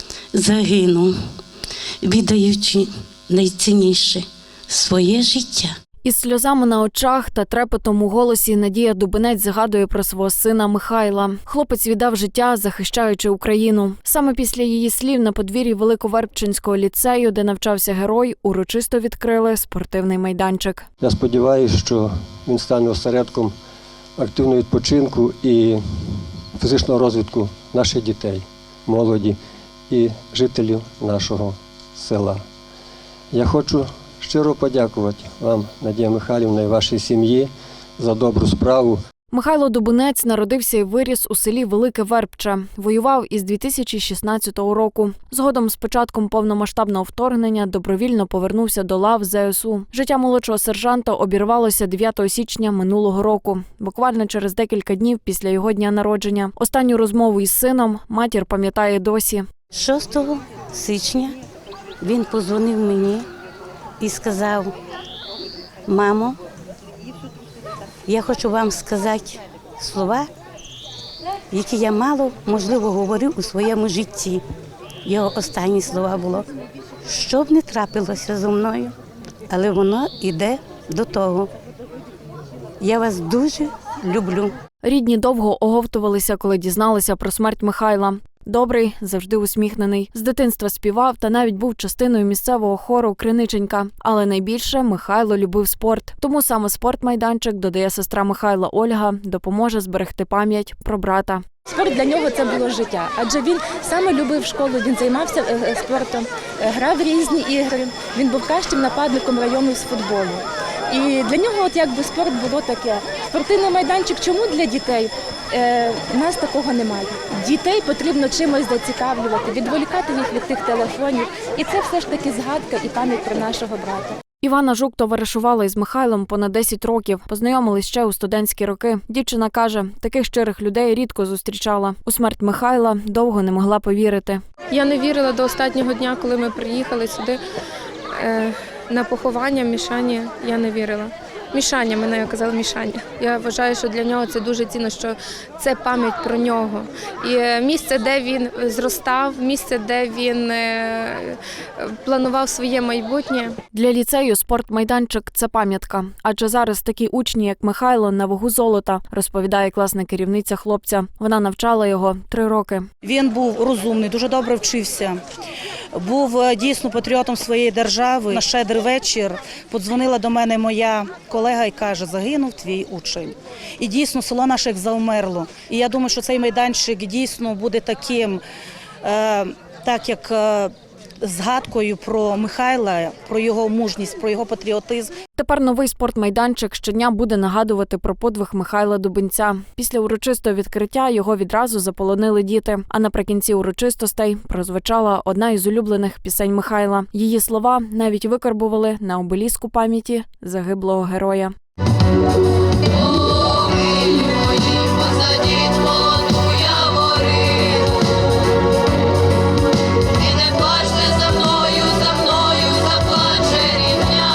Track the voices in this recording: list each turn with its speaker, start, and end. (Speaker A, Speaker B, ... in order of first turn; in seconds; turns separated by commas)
Speaker A: 0.3-1.1, Speaker A: 2.0-5.7, Speaker B: 6.0-20.9, Speaker C: 21.0-23.5, Speaker C: 24.2-29.4, Speaker C: 29.9-32.4, Speaker C: 33.3-39.0, Speaker B: 39.3-59.5, Speaker A: 59.7-61.4, Speaker A: 62.0-63.3, Speaker A: 64.0-64.7, Speaker A: 65.9-66.4, Speaker A: 68.1-70.3, Speaker A: 71.5-74.4, Speaker A: 75.0-76.5, Speaker A: 77.0-78.9, Speaker A: 79.5-81.5, Speaker A: 82.8-84.5, Speaker B: 84.8-101.5, Speaker D: 101.7-124.2, Speaker B: 124.4-134.4, Speaker E: 134.7-137.4, Speaker E: 138.1-153.6, Speaker B: 153.7-162.9, Speaker F: 163.0-165.2, Speaker F: 165.9-178.4, Speaker F: 179.0-185.1, Speaker B: 185.4-201.5